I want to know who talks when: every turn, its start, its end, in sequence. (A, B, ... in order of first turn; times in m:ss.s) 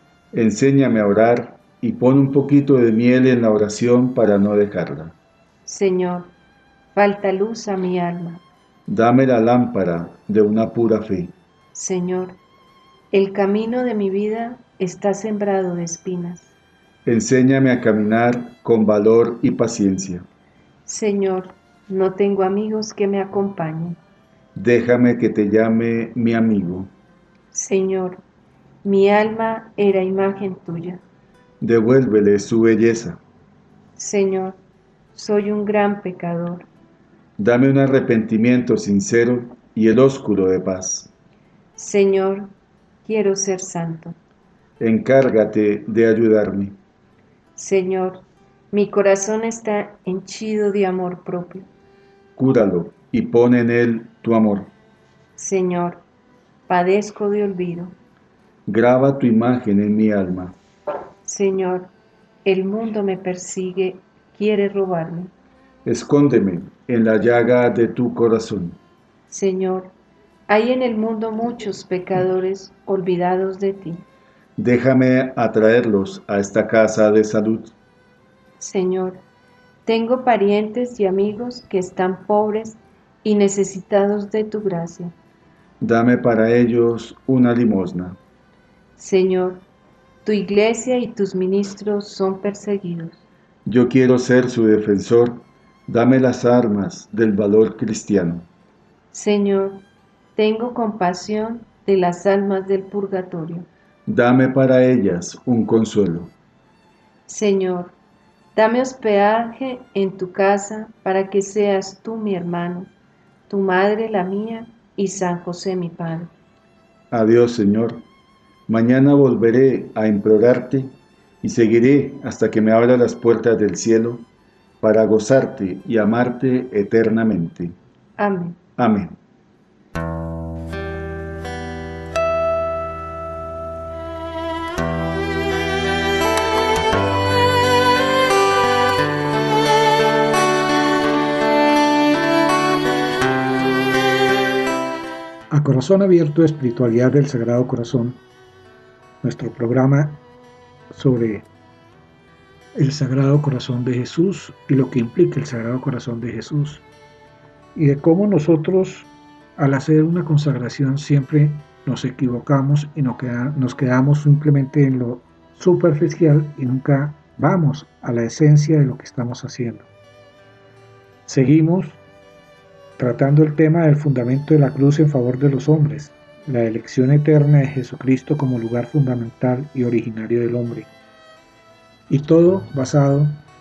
0:00.3-0:05.2 A
0:05.7-0:06.3 B
0:06.9-0:08.4 B
0:08.9-0:11.3 A
0:11.7-0:12.4 B
0:13.1-0:16.5 B
0:17.0-0:20.2 A
0:20.9-0:24.0 B
0:24.6-0:26.9 A
0:27.5-0:28.2 B
0:28.8-0:31.0 B
0:31.6-0:33.2 A
0:34.0-0:34.6 B
0:35.2-0:36.7 B
0:37.4-0:41.1 A
0:41.8-0:42.5 B
0:43.0-0:44.2 B
0:44.8-0:46.8 A
0:47.6-0:51.7 B
0:52.4-0:54.7 A
0:55.4-0:56.0 B
0:56.7-0:57.9 B
0:58.7-1:00.6 A
1:01.2-1:01.9 B
1:02.4-1:05.3 B
1:05.8-1:08.8 A
1:09.3-1:09.9 B
1:10.5-1:14.0 B
1:14.6-1:17.7 A
1:18.6-1:19.2 B
1:19.9-1:25.1 B
1:25.8-1:28.2 A
1:29.0-1:29.6 B
1:30.2-1:33.2 B
1:33.7-1:38.5 A
1:39.1-1:39.8 B
1:40.4-1:43.7 B
1:44.1-1:46.3 A
1:47.3-1:47.9 B
1:48.6-1:52.9 B
1:53.5-1:56.3 B
1:57.1-1:58.0 A
1:58.7-2:04.3 A
2:04.8-2:07.7 A
2:08.2-2:08.6 B
2:08.8-2:09.2 A
2:25.5-2:28.2 C
2:29.2-2:30.2 C
2:30.9-2:31.5 C
2:32.8-2:36.8 C
2:37.8-2:49.9 C
2:51.3-2:52.0 C
2:53.0-3:00.9 C
3:02.1-3:03.4 C